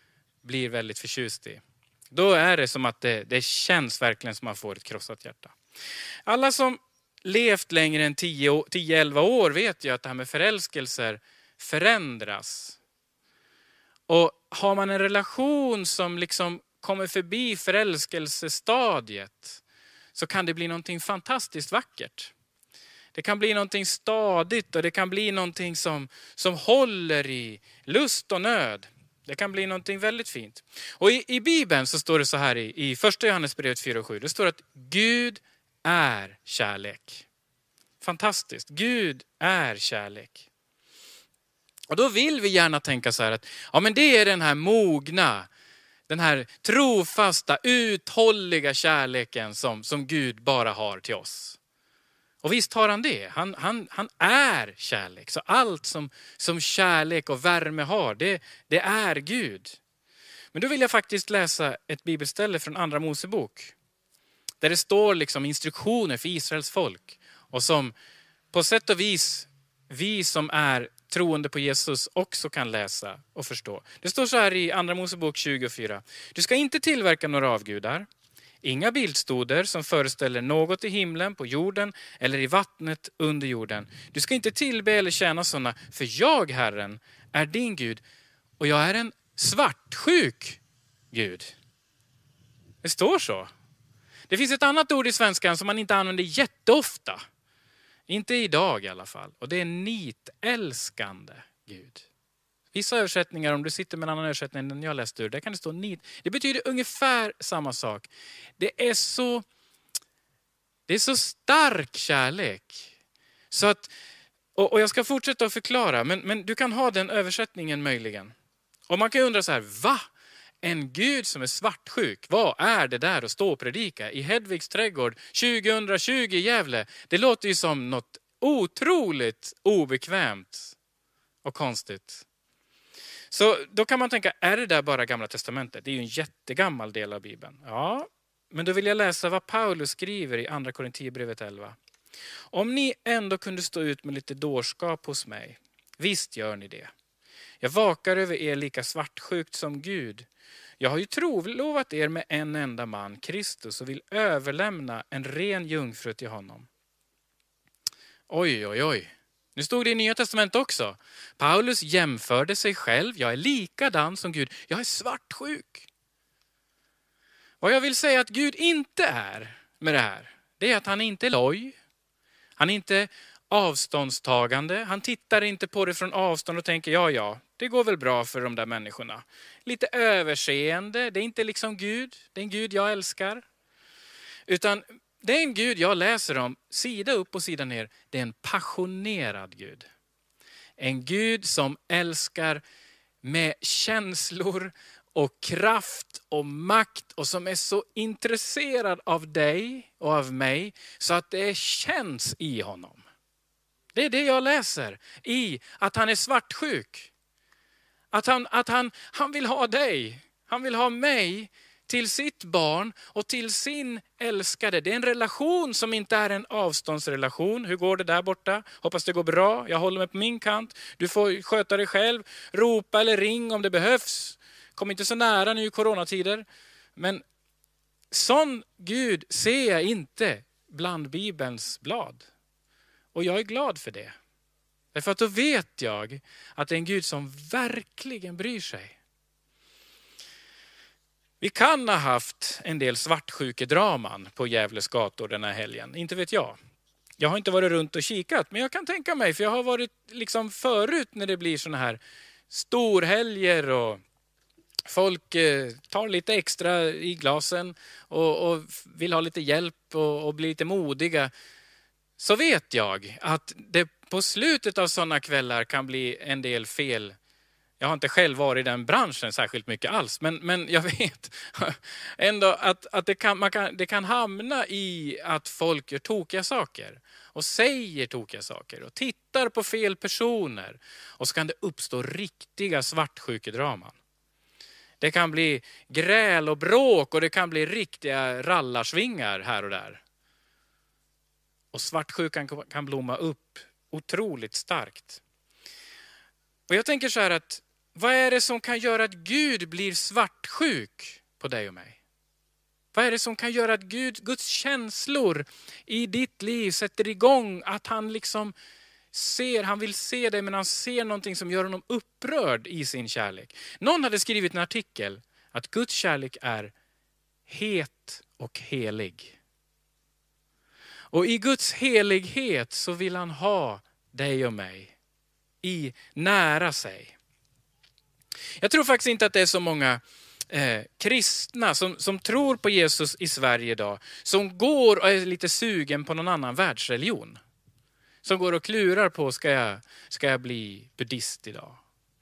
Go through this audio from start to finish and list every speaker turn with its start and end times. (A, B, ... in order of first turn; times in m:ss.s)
0:00.4-0:05.5 A
0:06.3-0:12.8 A
0:14.1-0:19.6 A
0:20.1-0:22.3 A
0:23.1-0:37.2 A
0:38.0-0:40.5 A
0:41.9-0:45.5 A
0:46.1-0:51.6 A
0:52.4-0:59.8 A
1:00.5-1:03.7 A
1:04.6-1:07.9 A
1:08.5-1:18.1 A
1:18.6-1:28.0 A
1:28.6-1:30.6 A
1:31.1-1:31.5 A
1:32.8-1:33.5 A
1:34.3-1:37.2 A
1:38.1-1:42.1 A
1:42.7-1:49.4 A
1:50.9-1:52.9 A
1:53.5-1:53.9 A
1:54.5-1:58.3 A
1:58.9-2:00.0 A
2:00.6-2:10.7 A
2:11.4-2:12.2 A
2:13.3-2:21.8 A
2:22.5-2:26.9 A
2:27.6-2:30.3 A
2:30.8-2:36.7 A
2:38.3-2:45.9 A
2:47.6-2:51.8 A
2:52.6-3:03.4 A
3:04.5-3:09.9 A
3:10.8-3:12.6 A
3:13.2-3:23.0 A
3:23.9-3:27.1 A
3:28.1-3:47.2 A
3:48.1-3:52.2 A
3:53.1-3:54.1 A
3:54.9-3:59.0 A
4:01.4-4:06.6 A
4:07.2-4:14.0 A
4:14.9-4:21.3 A
4:22.2-4:27.1 A
4:27.8-4:44.0 A
4:45.0-4:50.0 A
4:51.7-4:55.2 A
4:56.7-5:02.0 A
5:02.9-5:08.5 A
5:09.1-5:16.7 A
5:17.5-5:19.4 A
5:21.1-5:25.0 A
5:25.6-5:27.2 A
5:28.6-5:37.4 A
5:38.2-5:41.8 A